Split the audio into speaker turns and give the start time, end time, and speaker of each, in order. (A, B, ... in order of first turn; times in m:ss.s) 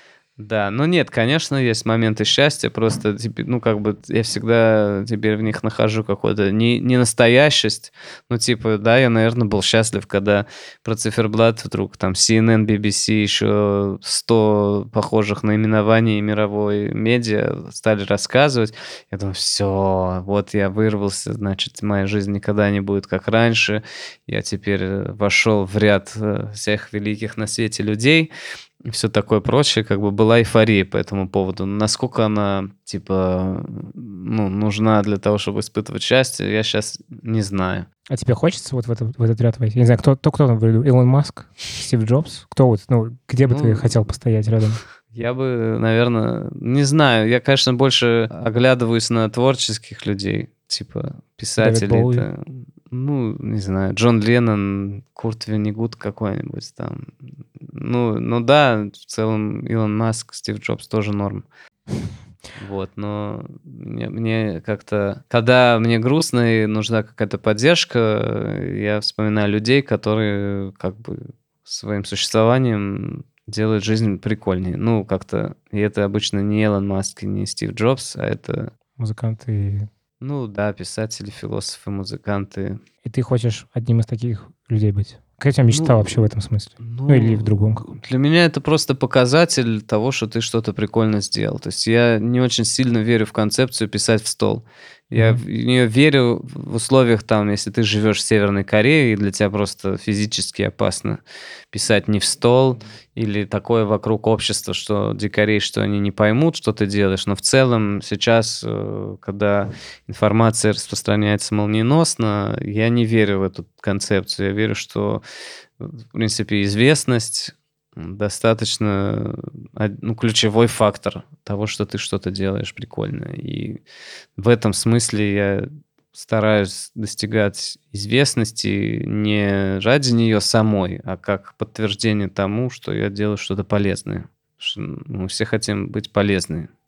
0:00.4-0:28.3 A
0:28.8-0:37.9 A
0:38.1-0:44.8 B
0:43.5-0:44.0 A
0:45.1-1:01.4 A
0:51.6-0:52.3 B
1:02.6-1:18.7 A
1:19.0-1:19.9 B
1:20.2-1:22.8 A
1:23.0-1:27.9 B
1:25.7-1:41.2 A
1:35.1-1:35.4 B
1:41.7-1:55.2 A
1:55.8-2:03.8 A
2:04.4-2:16.7 A